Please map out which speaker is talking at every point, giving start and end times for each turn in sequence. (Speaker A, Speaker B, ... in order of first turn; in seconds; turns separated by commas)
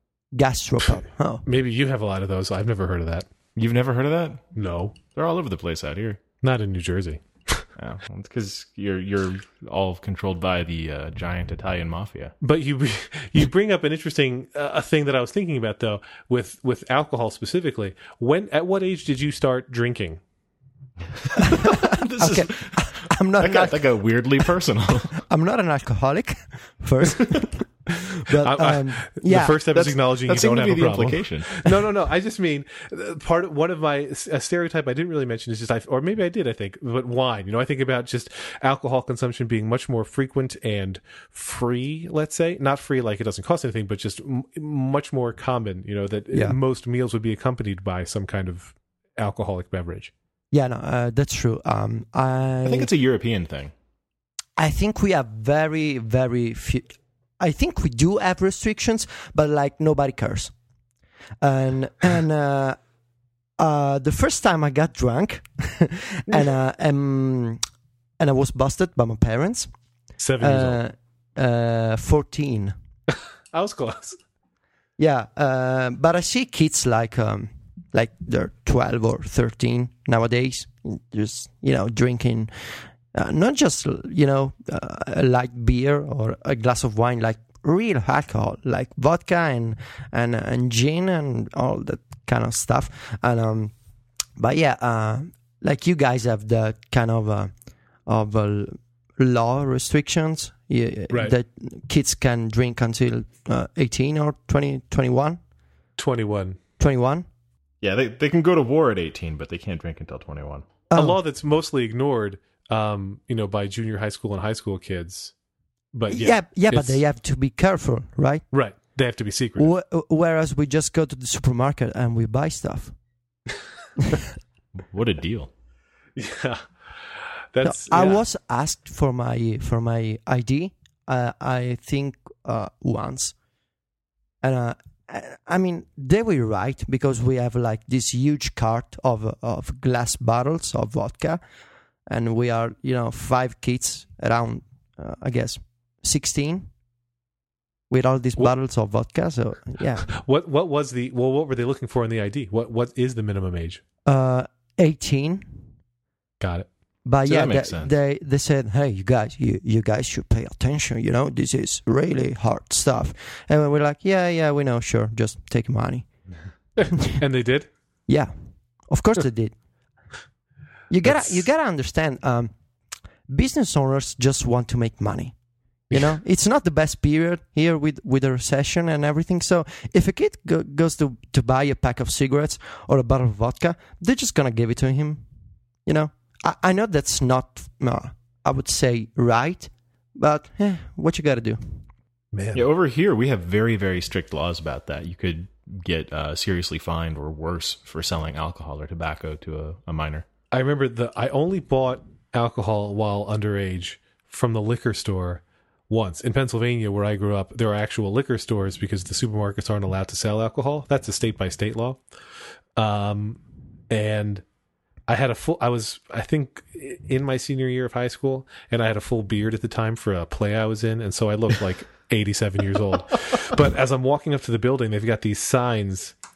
Speaker A: 0.3-1.4, Speaker B: 1.4-3.3, Speaker C: 3.5-4.4, Speaker B: 4.5-5.0, Speaker C: 5.1-6.2, Speaker B: 6.4-7.7, Speaker C: 7.8-12.3, Speaker B: 12.4-20.2, Speaker A: 21.4-23.9, Speaker C: 21.7-25.2, Speaker A: 25.2-27.6, Speaker A: 28.2-29.6, Speaker B: 28.4-50.1, Speaker C: 29.7-31.7, Speaker A: 46.3-46.6, Speaker A: 50.5-52.9, Speaker C: 52.6-53.7, Speaker A: 54.6-60.5, Speaker A: 61.4-62.8, Speaker A: 63.6-67.6, Speaker A: 68.2-69.7, Speaker B: 70.2-70.8, Speaker A: 70.4-72.7, Speaker B: 73.1-74.2, Speaker A: 75.0-93.7, Speaker A: 94.4-97.5, Speaker A: 98.0-105.4, Speaker B: 101.1-101.3, Speaker B: 106.0-106.6, Speaker A: 106.8-107.2, Speaker C: 107.8-110.7, Speaker A: 110.9-111.2, Speaker B: 110.9-115.3, Speaker B: 115.9-117.0, Speaker A: 116.1-118.4, Speaker B: 118.5-119.7, Speaker A: 119.6-123.0, Speaker C: 124.8-125.5, Speaker B: 126.2-128.2, Speaker A: 127.6-133.3, Speaker A: 134.4-141.4, Speaker A: 142.1-146.7, Speaker A: 147.9-150.1, Speaker B: 150.0-153.8, Speaker A: 154.1-155.7, Speaker B: 156.4-156.7, Speaker A: 157.0-166.2, Speaker C: 157.2-157.9, Speaker B: 166.8-167.7, Speaker A: 168.1-169.6, Speaker A: 170.9-172.5, Speaker B: 171.0-171.5, Speaker A: 173.3-175.4, Speaker B: 175.9-176.1, Speaker A: 175.9-185.2, Speaker A: 185.8-191.8, Speaker B: 192.3-192.6, Speaker C: 192.5-200.2, Speaker B: 200.5-212.0, Speaker B: 212.8-214.4, Speaker B: 215.1-226.1